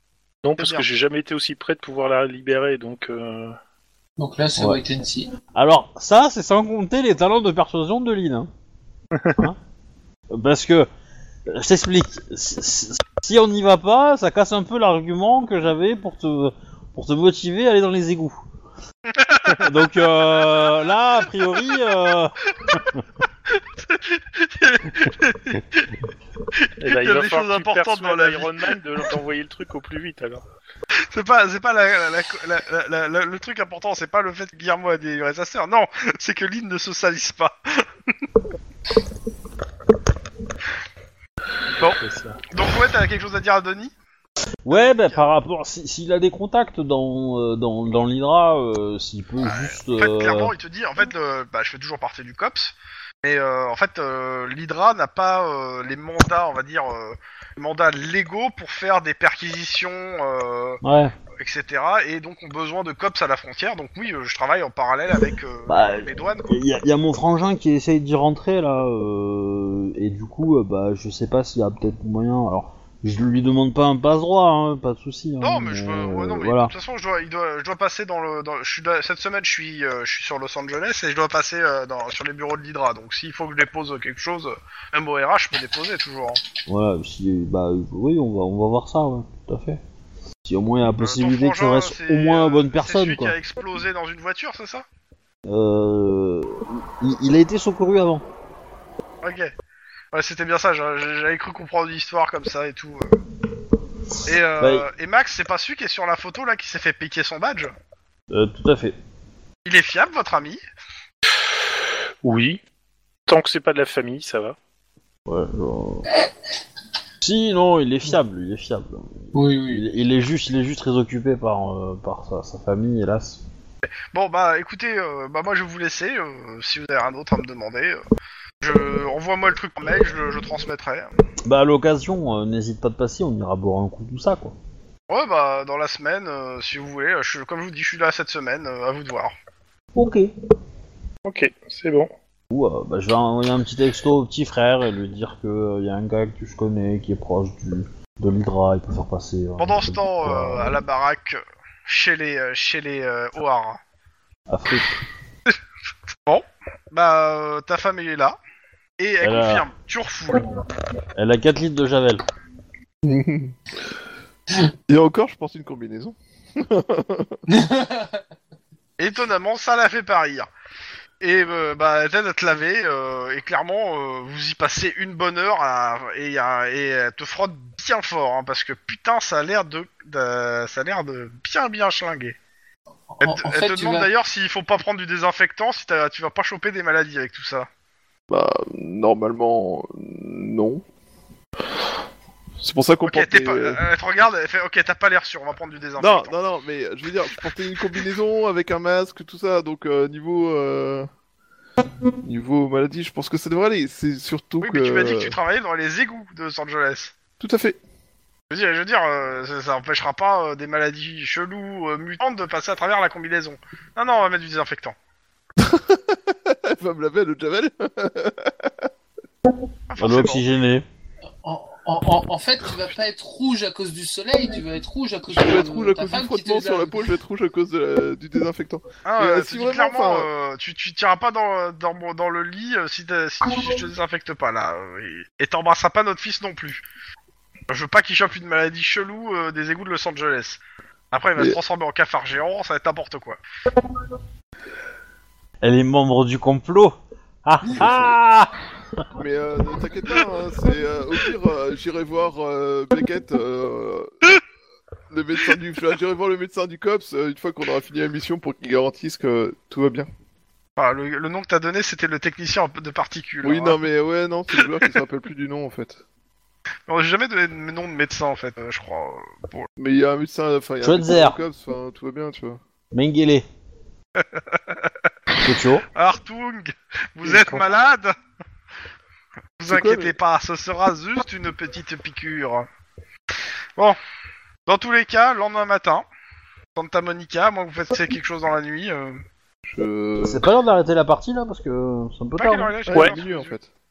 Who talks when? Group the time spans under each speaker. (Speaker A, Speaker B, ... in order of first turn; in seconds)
Speaker A: 0.4-3.6, 9.1-9.4, 26.8-30.4, 42.0-42.4, 112.2-112.6, 113.3-114.5, 141.2-142.1
Speaker B: 0.6-0.8, 19.1-20.9, 23.5-26.0, 26.5-28.7, 31.1-37.9, 42.5-43.9, 44.7-45.3, 49.4-60.8, 61.4-66.5, 75.4-86.4, 91.0-94.8, 99.2-99.5, 100.1-103.1, 104.2-107.7, 109.6-110.6, 124.1-128.0, 128.6-131.1, 135.1-139.3, 149.6-153.8, 156.3-158.4, 159.0-160.5, 169.0-170.5, 171.2-182.3, 183.2-187.7, 193.0-196.3, 204.6-207.1, 208.5-214.9, 219.9-220.4, 229.0-236.8, 237.7-240.6, 241.1-243.4, 260.8-263.8, 266.9-269.7, 274.1-274.9, 275.9-278.1, 279.6-282.7, 284.7-286.0, 286.7-289.2, 292.4-293.6
Speaker C: 4.2-5.3, 119.3-119.8, 167.5-168.2, 183.1-184.1, 221.4-227.1
Speaker D: 5.5-8.5, 10.3-10.9, 11.5-18.4, 19.6-23.0, 44.6-50.5, 60.8-61.1, 65.7-76.7, 86.7-89.8, 90.5-93.3, 95.5-98.2, 104.6-104.8, 108.3-109.0, 115.3-116.1, 117.2-123.4, 131.4-134.6, 139.9-140.3, 142.5-150.7, 154.5-154.9, 159.2-159.6, 161.1-162.2, 220.0-220.8, 245.6-249.0, 270.8-271.4, 272.9-273.4, 275.4-275.9, 290.2-292.7
Speaker E: 163.0-163.6, 164.9-167.4, 188.3-190.8, 192.6-193.8, 196.0-201.1, 202.2-205.4, 207.4-207.8, 215.6-218.8, 225.3-230.3, 247.7-248.2, 249.2-254.4, 255.1-260.1, 263.4-266.0, 269.8-272.6, 279.7-280.1, 289.6-290.4, 292.9-293.7